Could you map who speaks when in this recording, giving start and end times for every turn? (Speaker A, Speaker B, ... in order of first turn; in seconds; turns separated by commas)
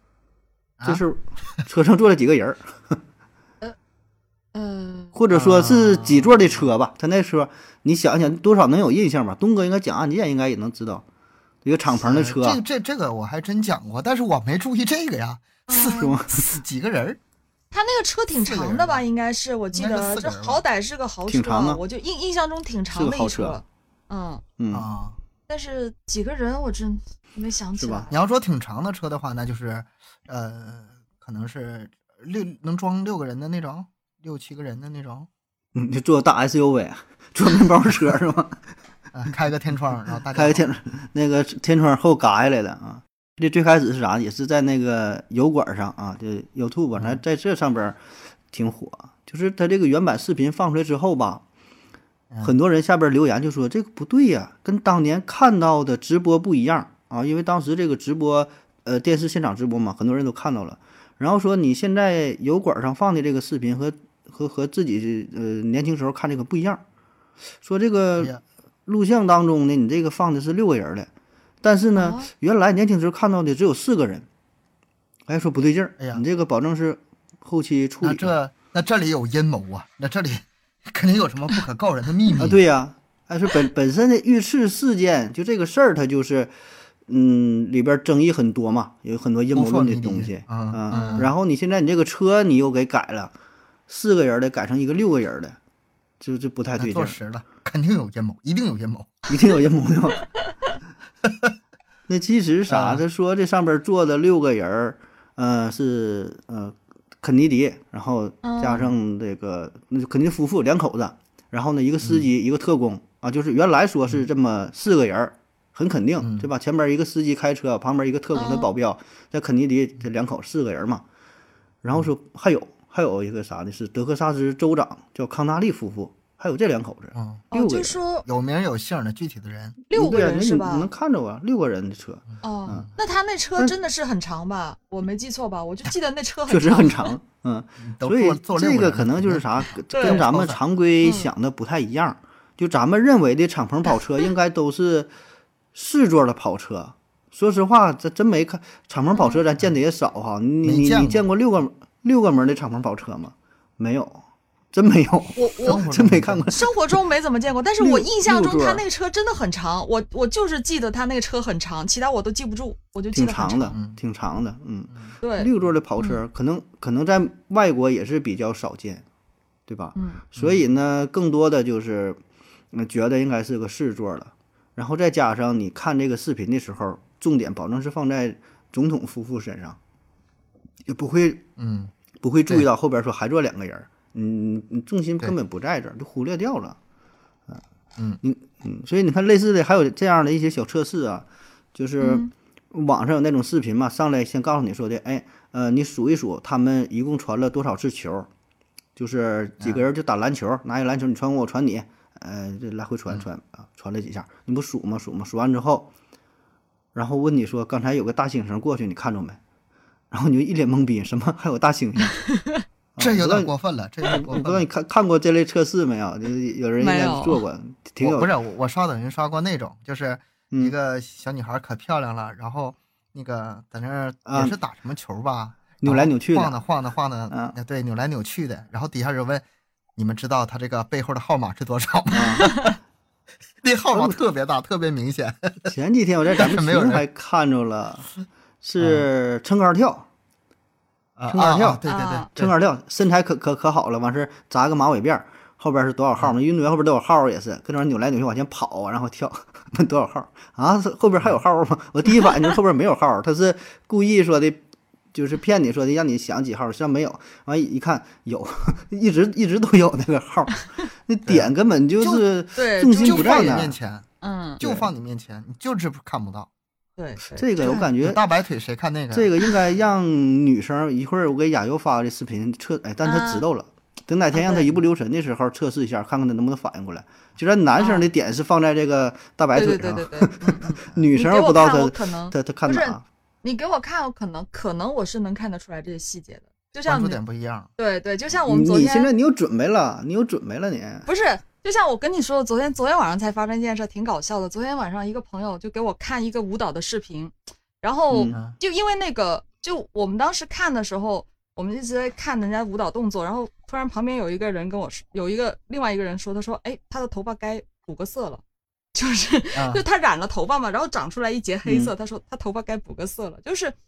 Speaker A: 0.8-3.0, Speaker B: 4.5-5.1, Speaker A: 5.1-11.0, Speaker C: 5.3-6.6, Speaker A: 11.6-12.6, Speaker C: 12.0-17.2, Speaker B: 15.7-16.1, Speaker A: 15.9-16.6, Speaker B: 17.7-24.4, Speaker C: 18.4-19.1, Speaker C: 19.7-20.6, Speaker A: 21.3-21.8, Speaker A: 22.9-23.6, Speaker A: 24.6-24.9, Speaker C: 24.7-25.2, Speaker B: 25.5-28.1, Speaker A: 27.8-28.1, Speaker C: 28.1-35.3, Speaker A: 35.7-38.6, Speaker C: 39.1-40.6, Speaker A: 40.3-48.0, Speaker A: 48.5-51.4, Speaker A: 52.4-66.8, Speaker A: 67.6-68.3, Speaker A: 68.9-71.1, Speaker A: 71.6-74.2, Speaker B: 72.0-72.3, Speaker A: 75.3-78.3, Speaker C: 78.0-82.6, Speaker A: 82.4-86.5, Speaker A: 87.1-93.3, Speaker C: 89.5-91.3, Speaker B: 90.9-91.3, Speaker A: 93.9-95.6, Speaker A: 96.2-97.2, Speaker C: 96.8-99.2, Speaker A: 99.3-100.2, Speaker C: 101.2-101.5, Speaker A: 102.1-121.0, Speaker C: 102.7-103.0, Speaker B: 108.4-108.9, Speaker C: 112.0-112.3, Speaker C: 116.2-116.5, Speaker B: 118.3-118.7, Speaker A: 121.8-128.0, Speaker C: 127.1-127.4, Speaker B: 127.5-128.2, Speaker C: 128.2-129.8, Speaker A: 129.9-132.9, Speaker B: 129.9-130.9, Speaker B: 132.4-137.1, Speaker A: 136.5-145.1, Speaker C: 137.8-140.6, Speaker B: 139.9-140.2, Speaker B: 141.0-141.3, Speaker A: 145.7-156.7, Speaker C: 150.6-151.2, Speaker B: 155.4-155.8, Speaker C: 155.6-156.5, Speaker B: 156.5-163.8, Speaker A: 157.8-158.8, Speaker A: 163.1-169.0, Speaker C: 163.7-164.0, Speaker B: 165.2-166.2, Speaker A: 169.7-172.2, Speaker B: 169.9-170.2, Speaker C: 170.4-170.6, Speaker A: 172.7-179.8, Speaker A: 180.9-181.4, Speaker C: 181.6-181.9, Speaker A: 182.2-186.8, Speaker A: 188.2-198.3, Speaker B: 192.0-192.3, Speaker A: 198.9-205.9, Speaker A: 206.9-209.4, Speaker A: 210.1-212.2, Speaker B: 212.1-212.6, Speaker A: 212.9-213.5, Speaker C: 213.0-214.7, Speaker A: 214.1-218.3, Speaker B: 216.8-217.4, Speaker C: 218.0-229.4, Speaker A: 224.2-224.6, Speaker A: 225.8-226.6, Speaker A: 227.3-227.6, Speaker C: 229.9-232.7, Speaker A: 232.1-232.5, Speaker B: 232.4-232.7, Speaker C: 233.6-235.7, Speaker A: 235.7-238.1, Speaker C: 236.4-237.0, Speaker A: 238.6-240.1, Speaker C: 238.8-239.1, Speaker C: 241.2-242.5, Speaker A: 241.3-241.8, Speaker B: 241.9-242.3, Speaker A: 242.4-254.6, Speaker A: 255.1-263.8, Speaker C: 261.2-262.2, Speaker B: 262.6-263.6, Speaker C: 263.0-264.1, Speaker B: 264.2-264.6, Speaker C: 264.6-266.5, Speaker A: 264.6-264.9, Speaker B: 267.0-267.9, Speaker A: 267.4-268.2, Speaker C: 268.0-269.3, Speaker A: 269.1-283.0, Speaker B: 273.0-273.4, Speaker B: 274.3-274.7, Speaker B: 277.8-278.1, Speaker B: 279.6-287.2, Speaker C: 286.9-287.7, Speaker B: 287.8-289.1, Speaker A: 288.5-291.1, Speaker B: 291.1-308.4, Speaker A: 298.1-298.4, Speaker B: 308.9-313.8, Speaker C: 309.6-309.8, Speaker A: 311.6-311.9